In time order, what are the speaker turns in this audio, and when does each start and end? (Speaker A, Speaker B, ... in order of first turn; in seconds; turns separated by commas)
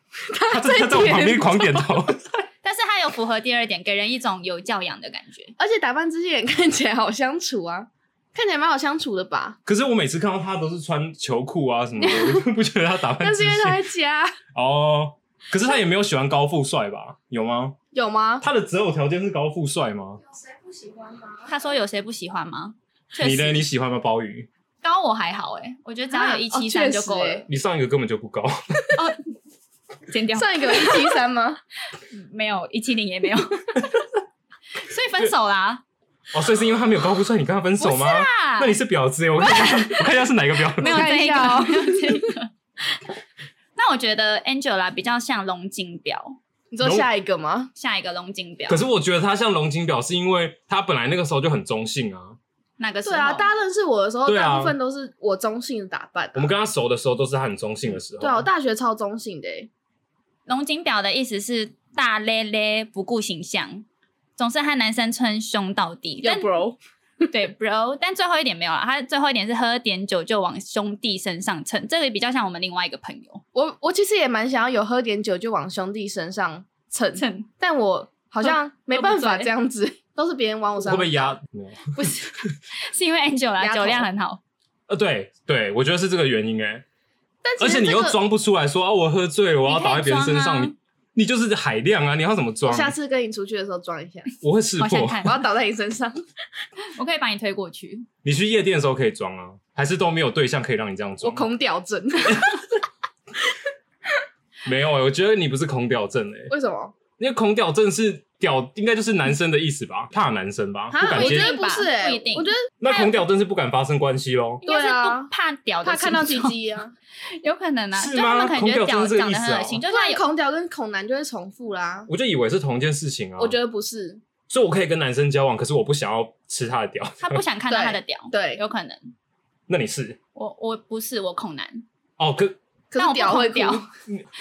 Speaker A: 0.3-1.9, Speaker B: 0.5-2.4, Speaker C: 2.6-5.5, Speaker A: 5.6-9.6, Speaker B: 9.7-13.8, Speaker A: 13.2-14.3, Speaker B: 14.5-17.8, Speaker A: 17.9-18.4, Speaker B: 18.4-20.2, Speaker A: 20.3-21.5, Speaker C: 21.5-23.6, Speaker B: 23.2-24.5, Speaker C: 24.8-27.4, Speaker A: 26.1-27.4, Speaker B: 27.5-28.8, Speaker C: 30.1-31.1, Speaker A: 30.3-31.6, Speaker C: 32.0-33.9, Speaker C: 34.8-35.8, Speaker B: 36.3-41.1, Speaker C: 37.8-38.8, Speaker C: 39.4-40.1, Speaker C: 40.8-42.5, Speaker A: 40.8-42.3, Speaker C: 43.8-46.4, Speaker A: 46.7-47.7, Speaker B: 46.8-47.0, Speaker C: 47.7-48.8, Speaker B: 48.7-52.4, Speaker C: 52.8-53.5, Speaker A: 53.0-56.5, Speaker B: 54.2-54.8, Speaker B: 56.3-58.5, Speaker A: 58.2-59.7, Speaker C: 60.5-63.9, Speaker C: 64.4-66.5, Speaker A: 66.2-67.3, Speaker C: 67.3-73.4, Speaker A: 73.5-81.3, Speaker C: 77.1-77.5, Speaker C: 78.4-79.5, Speaker B: 80.8-81.9, Speaker C: 81.9-84.4, Speaker A: 83.6-84.1, Speaker B: 84.9-86.8, Speaker A: 87.4-88.2, Speaker B: 87.6-92.9, Speaker C: 89.7-90.7, Speaker A: 92.7-94.3, Speaker B: 94.4-95.2, Speaker C: 94.8-95.4, Speaker A: 95.2-96.2, Speaker C: 96.9-98.0, Speaker B: 98.2-101.5, Speaker A: 101.2-102.8, Speaker B: 104.6-106.5, Speaker A: 106.5-106.9, Speaker B: 107.2-111.5, Speaker A: 110.9-112.7, Speaker C: 111.0-113.1, Speaker B: 112.8-114.6, Speaker C: 114.6-116.5, Speaker A: 114.6-115.3, Speaker A: 115.8-116.9, Speaker C: 117.3-120.2, Speaker B: 117.9-119.8, Speaker A: 119.9-122.1, Speaker B: 122.1-123.6, Speaker A: 123.4-124.2, Speaker B: 124.5-127.4, Speaker C: 127.2-129.1, Speaker A: 127.7-128.6, Speaker B: 129.7-130.2, Speaker C: 130.3-131.8, Speaker B: 132.2-132.6, Speaker A: 132.9-133.8, Speaker C: 132.9-133.8